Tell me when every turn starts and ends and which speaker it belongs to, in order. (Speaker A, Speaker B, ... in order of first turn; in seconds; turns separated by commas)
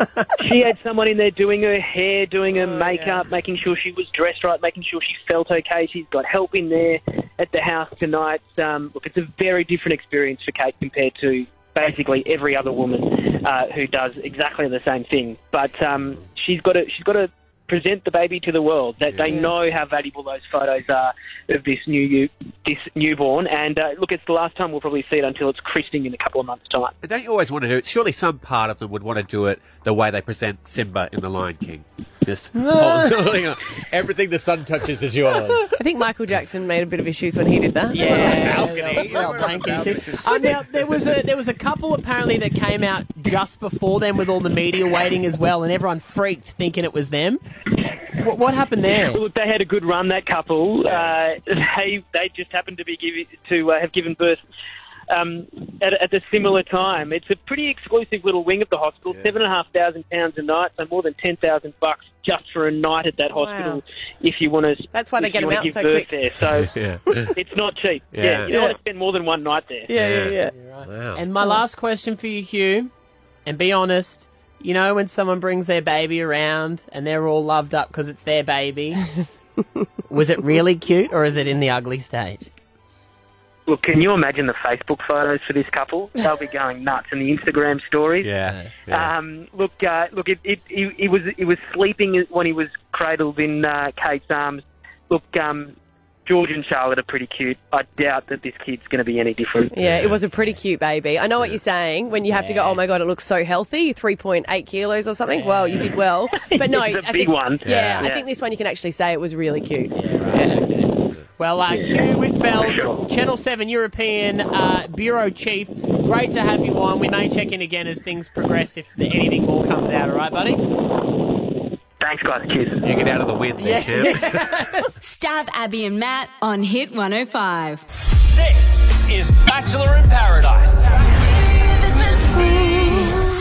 Speaker A: 0.4-26.9, Speaker B: 2.5-3.2, Speaker C: 19.1-19.4, Speaker B: 19.3-19.5, Speaker C: 27.0-35.8, Speaker D: 32.5-33.2, Speaker B: 35.7-38.9, Speaker C: 37.9-40.7, Speaker D: 37.9-47.4, Speaker D: 48.1-49.2, Speaker A: 49.1-54.4, Speaker A: 55.1-69.9, Speaker B: 63.3-63.8, Speaker B: 64.9-66.1, Speaker C: 66.6-67.3, Speaker C: 68.1-68.5, Speaker B: 68.5-68.8, Speaker B: 69.9-70.5, Speaker C: 69.9-71.2, Speaker D: 70.5-72.9, Speaker D: 73.5-79.1, Speaker D: 80.1-82.5, Speaker A: 83.7-88.3, Speaker C: 88.2-89.1, Speaker D: 88.5-88.7, Speaker A: 88.9-95.8, Speaker A: 96.3-99.8, Speaker B: 99.7-110.0, Speaker C: 99.8-100.2, Speaker D: 102.3-102.8, Speaker D: 105.3-105.9, Speaker A: 106.4-108.2, Speaker C: 107.6-108.0, Speaker D: 110.0-120.6, Speaker A: 112.6-112.9, Speaker A: 122.0-122.9, Speaker C: 122.8-124.4, Speaker D: 123.6-125.0, Speaker E: 125.0-127.8, Speaker F: 128.3-130.9